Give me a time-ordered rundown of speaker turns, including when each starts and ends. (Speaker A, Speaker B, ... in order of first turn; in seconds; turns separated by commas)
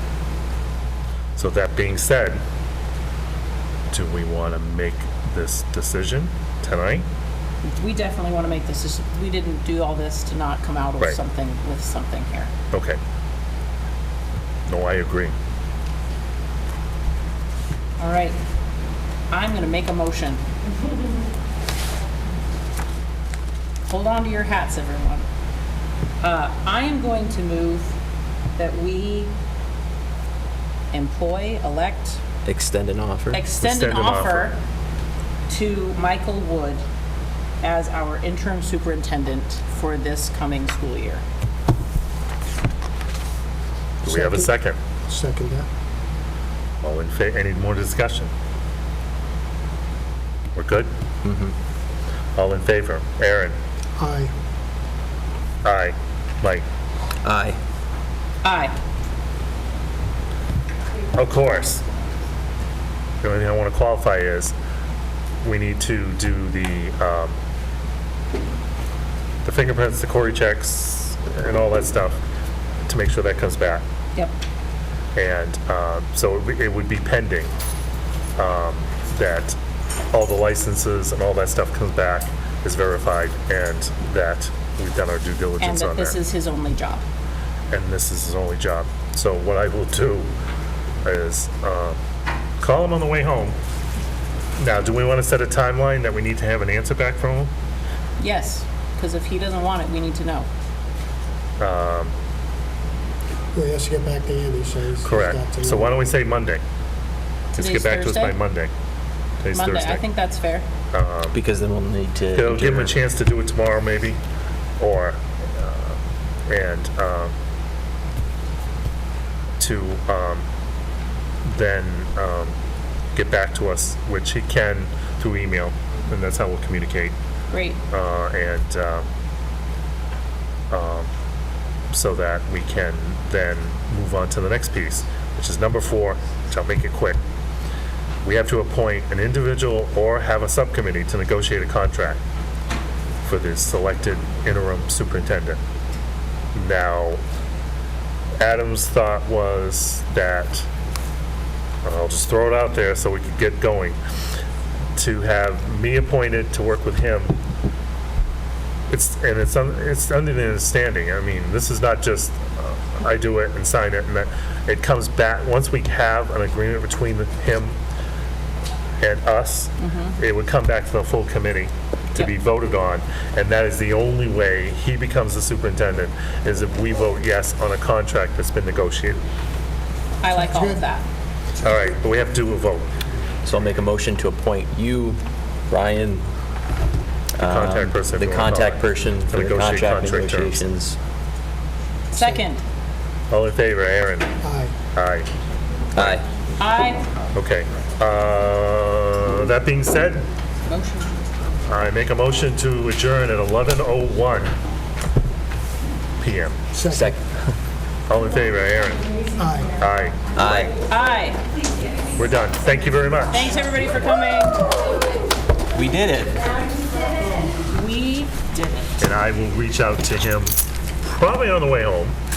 Speaker A: 1.4-2.4, Speaker A: 3.9-7.0, Speaker B: 7.6-12.5, Speaker A: 12.7-13.0, Speaker A: 14.7-15.3, Speaker B: 18.0-18.4, Speaker B: 19.3-20.4, Speaker B: 23.9-25.2, Speaker B: 26.2-27.9, Speaker B: 28.6-29.3, Speaker B: 30.9-32.2, Speaker C: 32.4-33.4, Speaker B: 33.3-34.6, Speaker A: 33.6-34.5, Speaker B: 35.5-36.8, Speaker B: 37.6-41.2, Speaker A: 44.0-44.8, Speaker D: 44.1-44.5, Speaker D: 45.1-45.7, Speaker A: 46.8-48.3, Speaker A: 50.5-50.9, Speaker C: 51.2-51.5, Speaker A: 52.4-53.5, Speaker D: 54.0-54.3, Speaker A: 55.6-56.6, Speaker C: 57.2-57.6, Speaker B: 58.4-58.7, Speaker A: 61.1-61.8, Speaker A: 63.2-64.5, Speaker A: 65.4-67.3, Speaker A: 69.4-72.2, Speaker A: 72.9-73.8, Speaker A: 75.1-77.5, Speaker A: 78.4-79.5, Speaker A: 80.1-86.2, Speaker B: 85.6-87.0, Speaker A: 87.7-90.3, Speaker A: 91.0-92.0, Speaker A: 92.6-93.5, Speaker A: 94.6-97.5, Speaker B: 98.2-100.5, Speaker A: 101.6-102.1, Speaker D: 103.5-106.0, Speaker A: 105.0-106.6, Speaker A: 107.5-108.7, Speaker B: 107.5-108.4, Speaker A: 109.4-110.0, Speaker B: 109.5-110.7, Speaker A: 110.9-111.4, Speaker C: 111.3-113.0, Speaker A: 112.3-114.2, Speaker A: 114.8-116.0, Speaker A: 116.5-117.3, Speaker A: 119.6-120.4, Speaker A: 121.4-122.5, Speaker A: 123.1-127.1, Speaker B: 127.5-127.8, Speaker A: 127.9-129.1, Speaker A: 130.7-131.1, Speaker A: 131.9-137.2, Speaker A: 138.2-142.2, Speaker A: 143.2-145.6, Speaker A: 146.5-147.2, Speaker A: 148.4-150.7, Speaker A: 151.8-154.0, Speaker A: 154.9-157.4, Speaker A: 158.9-167.8, Speaker A: 169.0-179.2, Speaker B: 169.8-170.1, Speaker B: 180.2-181.0, Speaker D: 180.3-180.8, Speaker A: 181.6-182.9, Speaker C: 183.4-186.2, Speaker C: 187.3-191.0, Speaker A: 187.4-190.6, Speaker B: 192.1-192.6, Speaker D: 192.2-192.4, Speaker A: 193.3-194.3, Speaker D: 194.4-194.8, Speaker A: 194.9-195.3, Speaker A: 195.9-196.2, Speaker C: 195.9-196.2, Speaker B: 196.6-197.0, Speaker A: 197.3-200.3, Speaker B: 200.7-201.1, Speaker A: 201.7-204.5, Speaker A: 206.2-206.6, Speaker D: 206.7-207.1, Speaker C: 206.9-207.2, Speaker A: 208.1-209.1, Speaker D: 209.4-209.7, Speaker A: 209.7-210.7, Speaker C: 210.3-210.7, Speaker B: 210.9-211.4, Speaker A: 212.2-213.7, Speaker B: 213.3-214.6, Speaker C: 215.7-216.5, Speaker B: 217.2-218.9, Speaker A: 219.0-222.2